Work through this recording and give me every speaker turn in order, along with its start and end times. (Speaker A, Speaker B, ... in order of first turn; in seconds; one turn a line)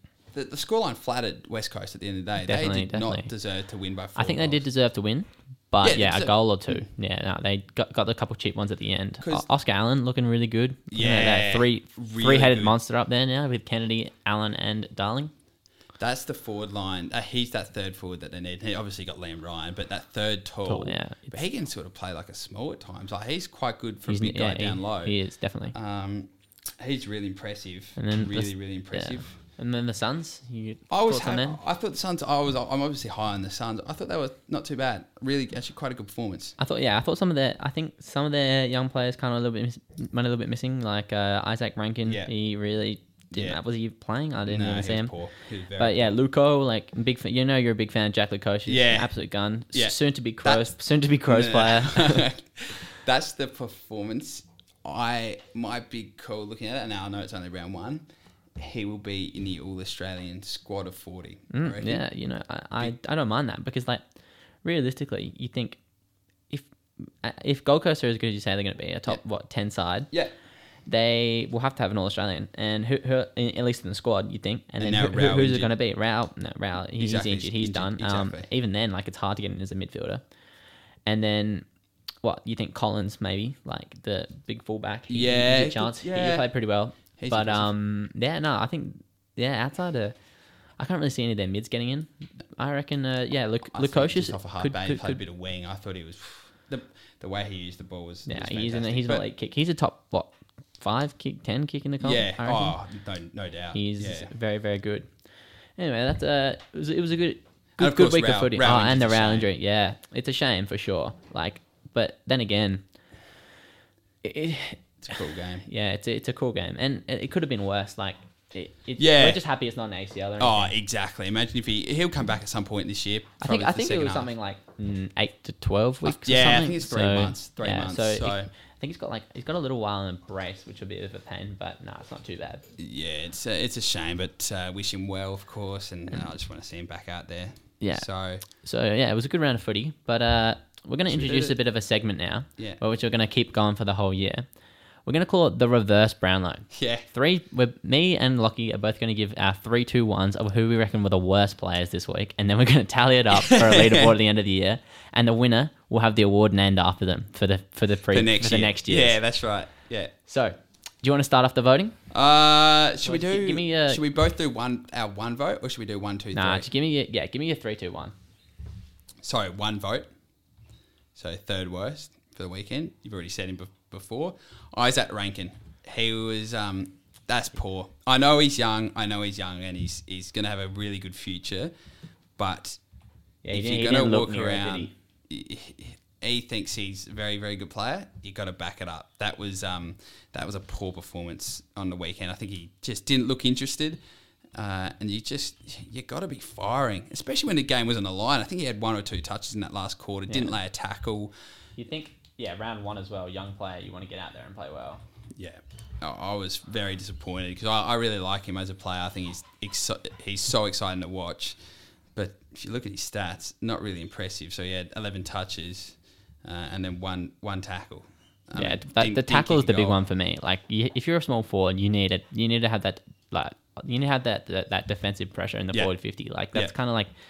Speaker A: 0.3-4.6
Speaker B: 2.4-3.3
Speaker B: 4.2-15.3
Speaker A: 5.8-6.9
Speaker A: 10.9-12.8
Speaker A: 16.0-25.1
Speaker B: 20.6-21.4
Speaker B: 24.1-25.7
Speaker A: 25.7-29.4
Speaker B: 28.0-31.6
Speaker A: 30.9-36.6
Speaker B: 36.6-45.1
Speaker A: 42.0-42.3
Speaker A: 43.3-43.6
Speaker A: 44.5-46.1
Speaker B: 45.8-52.3
Speaker A: 48.7-49.1
Speaker A: 49.7-50.7
Speaker A: 51.2-58.0
Speaker A: 58.6-62.0
Speaker B: 61.5-64.0
Speaker B: 64.6-65.8
Speaker B: 67.2-70.1
Speaker B: 70.9-80.2
Speaker A: 74.8-75.7
Speaker A: 77.0-78.5
Speaker B: 81.0-81.6
Speaker B: 82.2-90.2
Speaker A: 85.1-86.5
Speaker A: 87.2-87.7
Speaker B: 90.8-95.2
Speaker A: 93.7-99.2
Speaker B: 98.2-102.7
Speaker A: 102.0-104.3
Speaker B: 103.7-105.1
Speaker B: 105.8-112.8
Speaker A: 107.8-109.5
Speaker B: 114.2-114.8
Speaker A: 115.0-115.7
Speaker B: 115.6-120.7
Speaker A: 119.0-119.4
Speaker A: 120.4-124.3
Speaker B: 123.4-132.6
Speaker A: 126.0-128.5
Speaker A: 132.8-138.4
Speaker B: 137.8-144.4
Speaker A: 141.1-141.6
Speaker B: 145.1-159.2
Speaker A: 146.7-147.1
Speaker A: 153.3-154.1
Speaker A: 158.1-160.1
Speaker B: 160.2-162.0
Speaker A: 162.1-166.7
Speaker B: 163.0-164.0
Speaker B: 166.3-168.1
Speaker A: 169.2-170.1
Speaker A: 171.1-181.7
Speaker A: 182.4-182.8
Speaker B: 183.4-184.9
Speaker A: 183.5-194.0
Speaker A: 194.5-201.3
Speaker B: 200.3-200.5
Speaker B: 201.8-205.0
Speaker A: 205.3-211.6
Speaker A: 212.1-220.0
Speaker B: 218.5-227.1